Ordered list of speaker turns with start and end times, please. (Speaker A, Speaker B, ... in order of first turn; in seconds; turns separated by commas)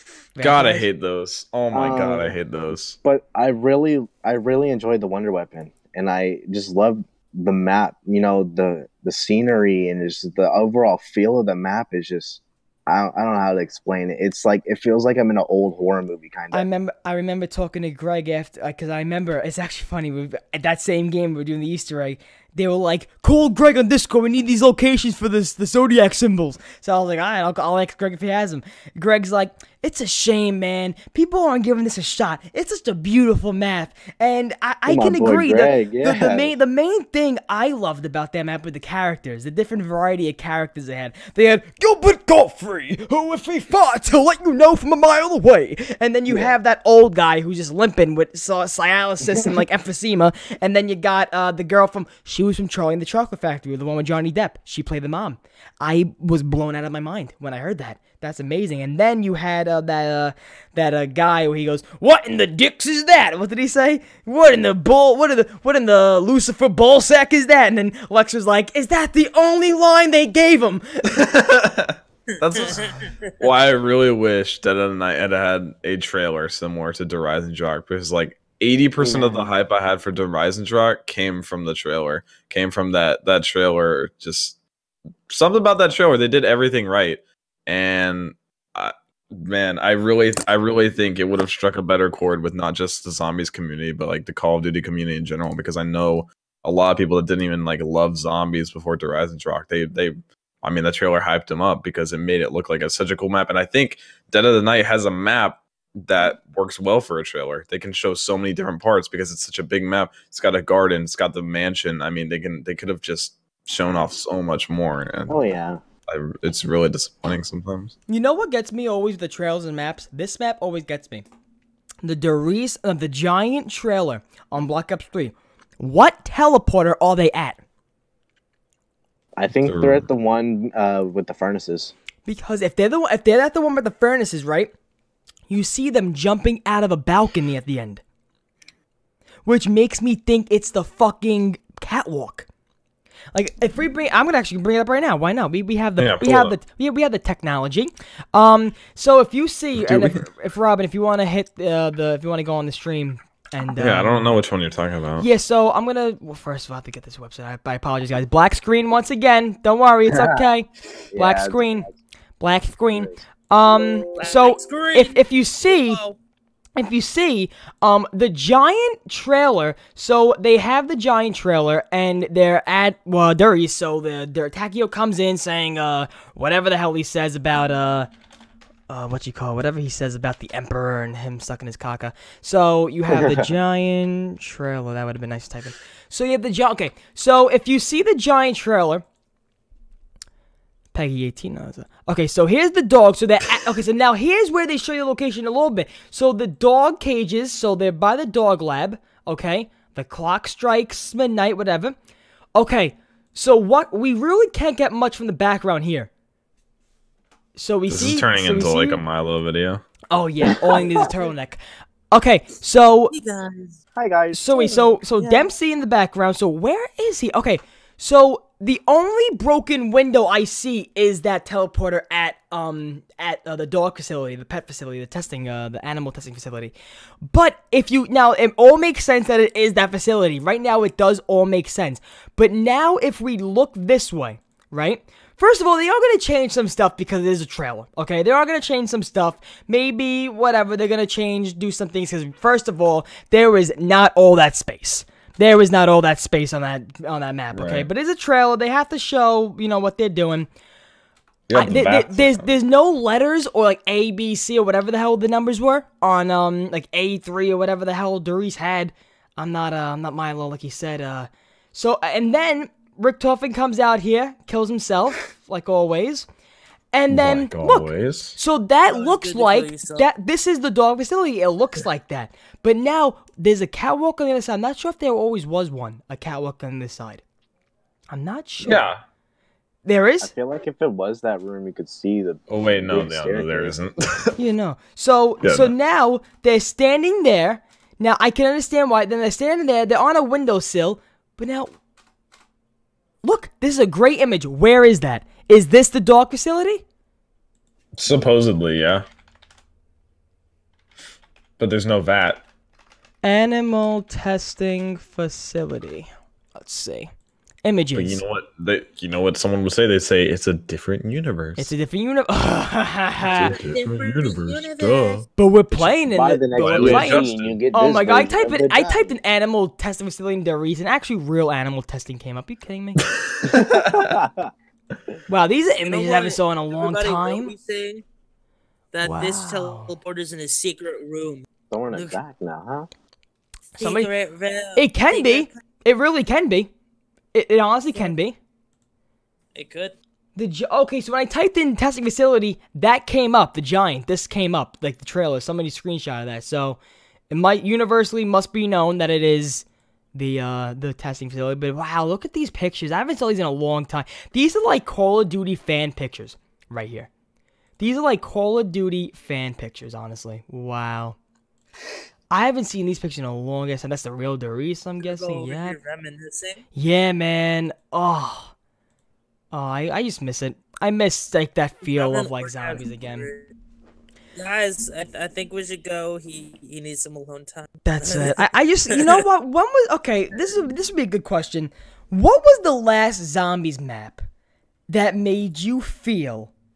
Speaker A: 0.3-0.8, Speaker B: 0.4-3.0, Speaker C: 1.7-2.3, Speaker C: 3.0-16.6, Speaker A: 16.5-71.2, Speaker C: 34.9-36.5, Speaker C: 46.3-46.5, Speaker B: 71.1-84.6, Speaker D: 72.5-73.3, Speaker C: 79.0-79.5, Speaker B: 85.3-115.4, Speaker C: 115.3-115.8, Speaker B: 116.1-117.9, Speaker A: 118.1-121.2, Speaker A: 122.0-127.6, Speaker C: 129.4-131.9, Speaker B: 129.6-130.0, Speaker A: 132.2-134.7, Speaker A: 135.5-138.0, Speaker A: 139.4-142.5, Speaker A: 143.3-154.3, Speaker B: 146.0-146.5, Speaker B: 149.7-150.2, Speaker B: 153.8-155.3, Speaker A: 155.2-161.9, Speaker C: 160.1-160.4, Speaker C: 161.1-161.9, Speaker A: 162.4-166.0, Speaker D: 164.2-166.2, Speaker A: 166.8-178.1, Speaker A: 178.9-189.0, Speaker C: 183.1-183.5, Speaker A: 190.9-201.9, Speaker A: 202.5-206.1, Speaker A: 207.6-209.0, Speaker B: 207.9-209.8, Speaker A: 210.1-213.1, Speaker C: 210.7-211.1, Speaker D: 213.1-213.8, Speaker C: 213.9-214.9, Speaker A: 214.3-250.5, Speaker D: 215.2-215.5, Speaker B: 247.5-247.9, Speaker B: 251.5-252.5, Speaker A: 251.5-266.3, Speaker A: 266.9-277.2, Speaker B: 267.1-268.4, Speaker D: 268.9-270.1, Speaker A: 278.1-278.9, Speaker B: 278.6-279.0, Speaker A: 279.8-280.3, Speaker C: 280.2-283.8, Speaker B: 282.5-284.3, Speaker A: 284.4-291.7, Speaker B: 285.4-285.7, Speaker A: 293.2-296.8, Speaker B: 297.9-299.1, Speaker B: 301.6-302.4, Speaker A: 303.2-307.1, Speaker A: 307.6-308.2, Speaker B: 307.9-311.7, Speaker A: 311.6-313.6, Speaker B: 313.2-315.2, Speaker D: 313.6-315.3, Speaker A: 315.4-323.1, Speaker C: 316.1-319.1, Speaker B: 316.5-317.6, Speaker B: 323.4-324.1, Speaker C: 323.4-324.5, Speaker A: 325.3-327.5, Speaker D: 325.9-328.0, Speaker D: 328.9-332.2, Speaker A: 329.0-329.9, Speaker C: 331.7-332.9, Speaker D: 333.8-335.5, Speaker A: 333.8-334.1, Speaker A: 334.8-336.7, Speaker A: 337.3-338.4, Speaker D: 339.5-339.9, Speaker A: 340.4-346.8, Speaker A: 347.3-357.1, Speaker A: 357.8-361.2, Speaker A: 362.3-365.8, Speaker D: 365.0-366.6, Speaker A: 366.7-368.5, Speaker A: 369.5-373.3, Speaker D: 371.9-373.5, Speaker D: 374.4-379.2, Speaker A: 377.8-384.2, Speaker A: 384.9-386.5